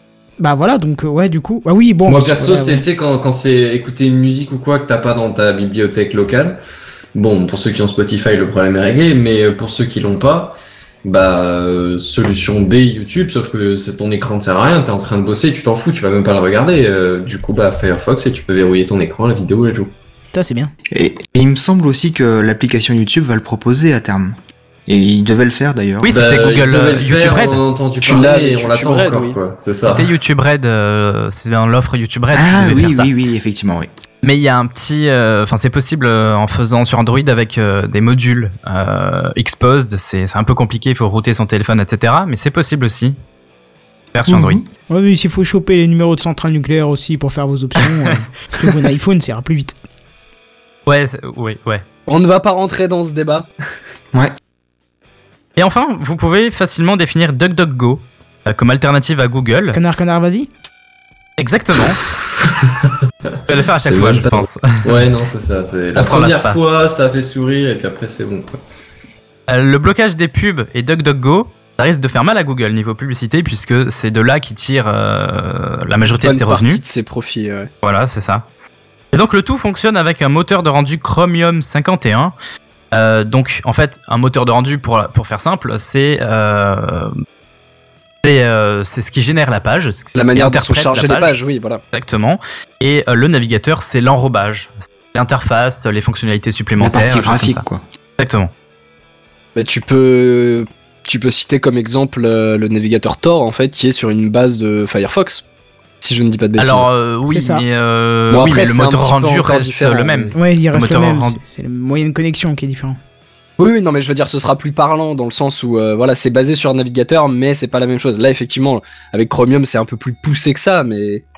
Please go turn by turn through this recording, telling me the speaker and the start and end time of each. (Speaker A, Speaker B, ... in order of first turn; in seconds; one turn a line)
Speaker A: 0.4-2.8
Speaker B: 2.0-6.6
Speaker B: 7.2-19.9
Speaker A: 20.3-20.7
Speaker C: 20.9-26.1
Speaker D: 26.0-27.6
Speaker B: 26.1-30.1
Speaker E: 28.0-29.4
Speaker D: 29.9-33.1
Speaker C: 32.3-33.9
Speaker D: 34.2-43.2
Speaker D: 44.1-44.6
Speaker C: 44.3-44.6
Speaker A: 44.9-49.8
Speaker D: 47.9-48.1
Speaker D: 50.9-51.9
Speaker E: 52.1-53.5
Speaker D: 55.6-59.8
Speaker A: 59.7-60.5
Speaker D: 61.4-62.0
Speaker B: 62.5-68.6
Speaker D: 63.5-65.0
Speaker D: 66.0-66.6
Speaker D: 69.5-76.8
Speaker E: 76.2-77.7
Speaker D: 77.8-78.5
Speaker D: 79.1-82.3
Speaker D: 82.9-87.1
Speaker D: 88.2-91.3
Speaker E: 90.2-91.8
Speaker D: 91.9-97.6
Speaker C: 96.8-97.8
Speaker D: 98.2-98.5
Speaker E: 99.5-105.4
Speaker E: 106.0-106.9
Speaker D: 106.6-111.4
Speaker A: 107.3-107.7
Speaker E: 108.3-110.3
Speaker A: 110.3-113.0
Speaker E: 113.6-121.2